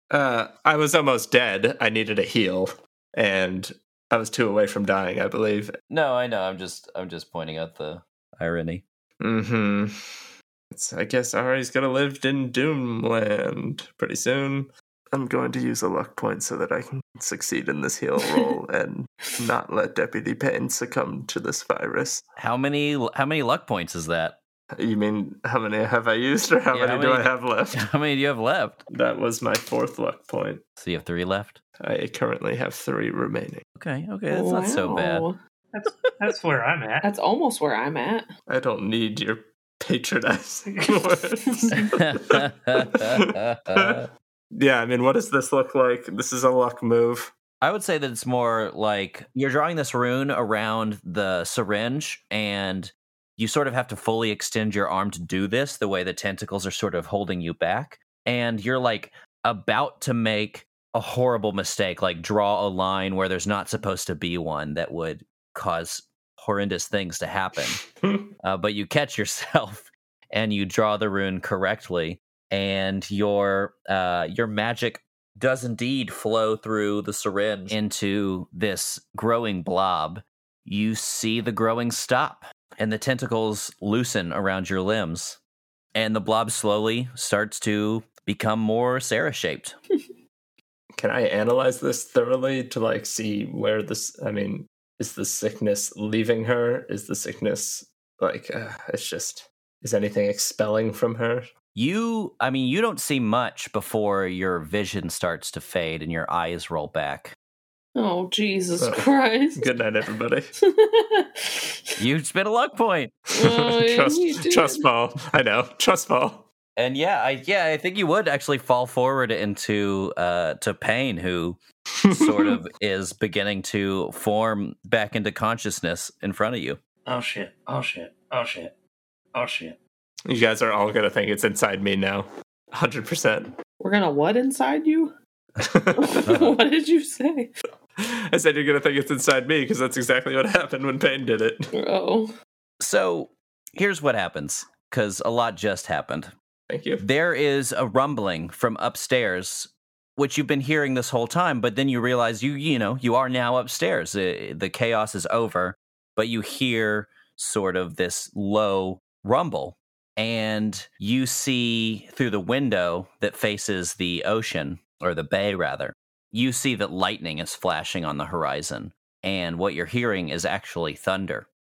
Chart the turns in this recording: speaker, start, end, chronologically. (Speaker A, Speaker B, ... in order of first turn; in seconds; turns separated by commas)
Speaker A: 0.1-5.7, Speaker B: 5.9-8.8, Speaker A: 9.2-9.9, Speaker A: 10.7-22.2, Speaker B: 22.4-24.4, Speaker A: 24.7-27.8, Speaker B: 26.7-28.9, Speaker A: 28.9-30.6, Speaker B: 30.8-31.6, Speaker A: 31.8-33.6, Speaker B: 33.8-35.2, Speaker C: 34.3-35.4, Speaker D: 35.7-37.1, Speaker C: 37.0-38.3, Speaker A: 38.5-47.3, Speaker D: 40.7-41.2, Speaker B: 41.9-44.1, Speaker B: 47.6-67.8, Speaker A: 67.8-68.3, Speaker B: 68.4-85.4, Speaker B: 85.9-89.7, Speaker A: 91.0-101.5, Speaker B: 101.7-107.3, Speaker C: 107.9-109.7, Speaker A: 108.8-110.5, Speaker C: 110.6-111.8, Speaker B: 112.0-113.1, Speaker C: 113.3-114.8, Speaker A: 113.4-116.5, Speaker B: 116.8-126.8, Speaker A: 122.0-122.6, Speaker D: 127.0-128.8, Speaker D: 129.3-129.8, Speaker A: 130.3-133.5, Speaker C: 133.8-135.1, Speaker A: 135.6-136.3, Speaker C: 135.9-137.5, Speaker B: 136.2-136.6, Speaker A: 138.0-141.7, Speaker C: 141.7-142.3, Speaker B: 142.8-146.3, Speaker A: 146.7-147.0, Speaker B: 147.0-171.5